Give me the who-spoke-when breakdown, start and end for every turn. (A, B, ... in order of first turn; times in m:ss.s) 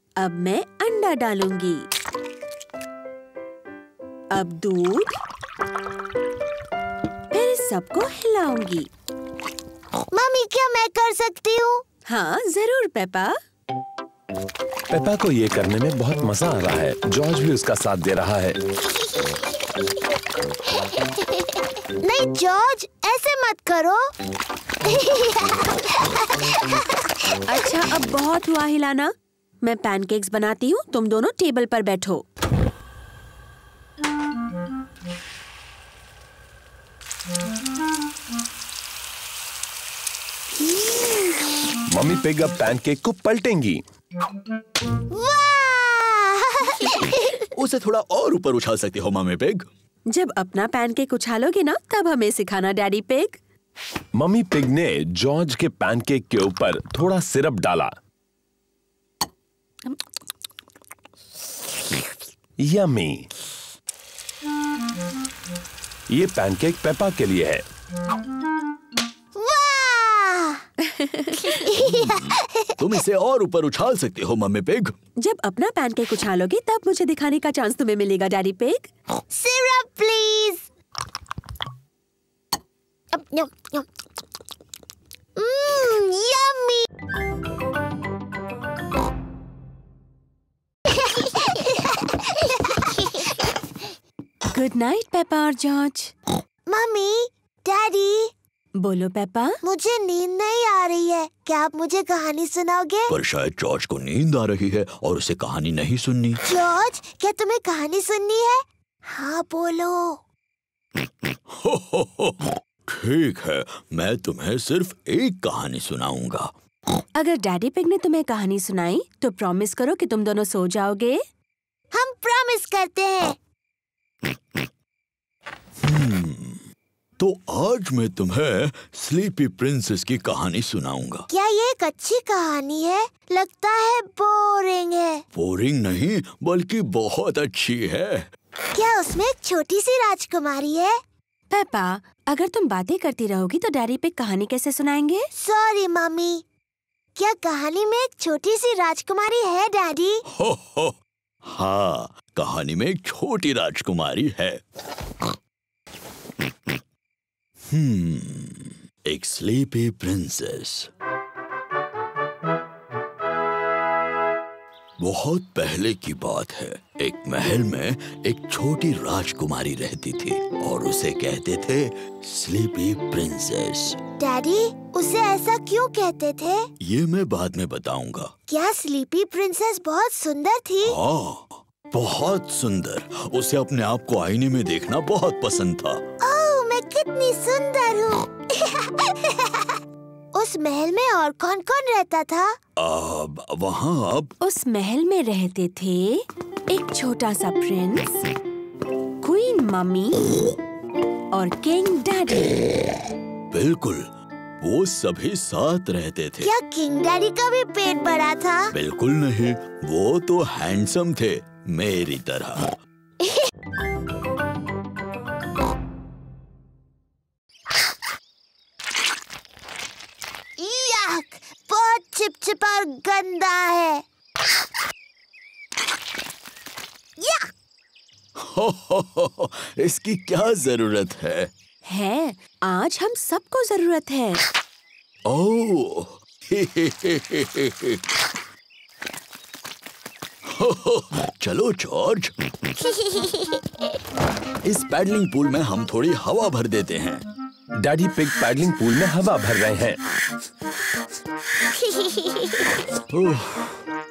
0:00.2-0:01.9 A
0:04.3-0:05.2 A
0:07.3-0:08.9 A
0:10.1-0:11.8 B
0:12.0-0:13.4 A
0:14.9-0:18.6 C
0:22.0-0:24.1 B
0:24.8-0:26.8 B
0:27.5-0:32.2 A
0:41.9-0:43.8 C
0:45.1-0:47.4 B
0:47.6-0:49.7 D
0:50.1-0:53.4 A
0:54.1-0:57.9 C
1:02.6-1:03.3 C
1:06.1-1:07.6 C
1:09.3-1:10.7 B
1:10.9-1:11.4 A
1:11.4-1:12.8 B
1:12.8-1:15.0 D
1:15.2-1:18.9 A
1:19.3-1:20.7 B
1:23.1-1:23.8 B
1:25.4-1:26.9 B
1:31.3-1:32.1 B
1:34.5-1:36.1 A
1:36.7-1:38.3 B
1:38.8-1:39.6 A
1:39.6-1:43.1 B
1:43.1-1:46.4 D
1:46.4-1:50.2 B
1:51.5-1:56.5 D
1:57.1-2:01.2 A
2:01.9-2:03.4 B
2:05.8-2:06.6 D
2:07.2-2:11.2 D
2:11.3-2:15.2 B
2:15.3-2:18.3 D
2:18.7-2:21.0 B
2:21.5-2:25.3 A
2:25.3-2:26.4 B
2:27.1-2:30.2 B
2:30.3-2:34.6 D
2:37.7-2:40.9 D
2:45.0-2:54.0 D
2:54.2-2:56.7 B
2:56.8-2:58.3 D
2:58.5-3:01.0 B
3:00.8-3:06.0 D
3:06.2-3:09.7 B
3:10.3-3:12.6 B
3:12.8-3:14.3 D
3:14.4-3:18.3 A
3:19.2-3:20.5 A
3:21.3-3:22.7 A
3:23.5-3:24.1 D
3:24.6-3:26.5 D
3:26.4-3:28.7 B
3:28.7-3:32.8 D
3:40.6-3:44.0 B
3:47.2-3:47.5 B
3:48.3-3:51.5 D
3:51.8-3:54.4 A
3:55.2-3:58.0 D
4:00.4-4:02.3 D
4:04.6-4:07.2 D
4:07.8-4:10.0 C
4:13.1-4:13.8 D